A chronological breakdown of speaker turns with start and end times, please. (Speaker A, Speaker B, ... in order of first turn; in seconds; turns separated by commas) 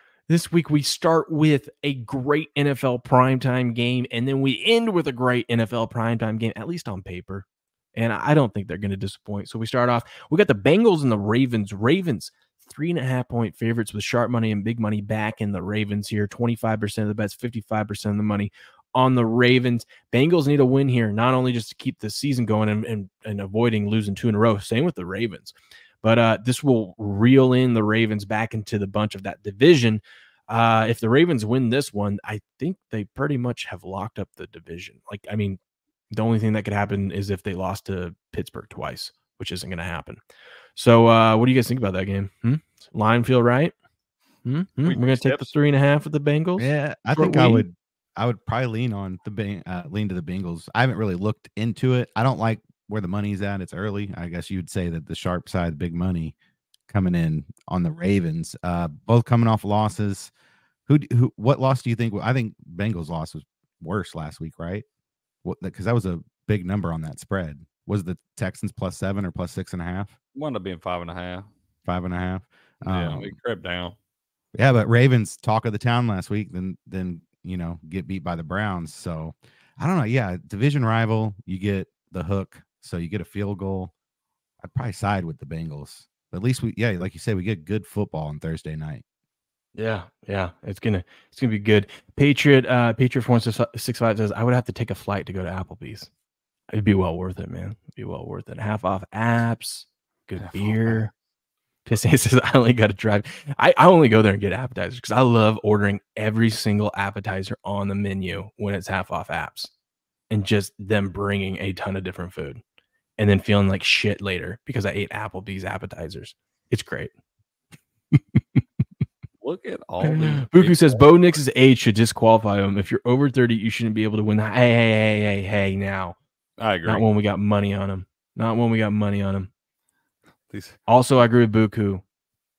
Speaker A: 0.3-35.6, Speaker A: 36.1-40.2, Speaker A: 40.8-43.7, Speaker A: 44.4-47.7, Speaker B: 44.8-45.5, Speaker C: 46.6-56.3, Speaker C: 56.9-60.3, Speaker C: 60.9-64.8, Speaker C: 65.4-70.1, Speaker B: 70.3-71.5, Speaker C: 71.9-73.3, Speaker B: 72.8-73.9, Speaker C: 74.5-83.9, Speaker C: 84.6-89.0, Speaker A: 89.7-96.1, Speaker A: 96.7-101.1, Speaker B: 100.4-101.1, Speaker A: 101.8-109.7, Speaker A: 110.3-112.6, Speaker A: 113.2-117.1, Speaker A: 118.1-118.4, Speaker B: 119.4-121.4, Speaker A: 120.0-126.2, Speaker B: 126.6-127.1, Speaker A: 126.8-129.5, Speaker B: 130.5-130.8, Speaker A: 130.9-132.0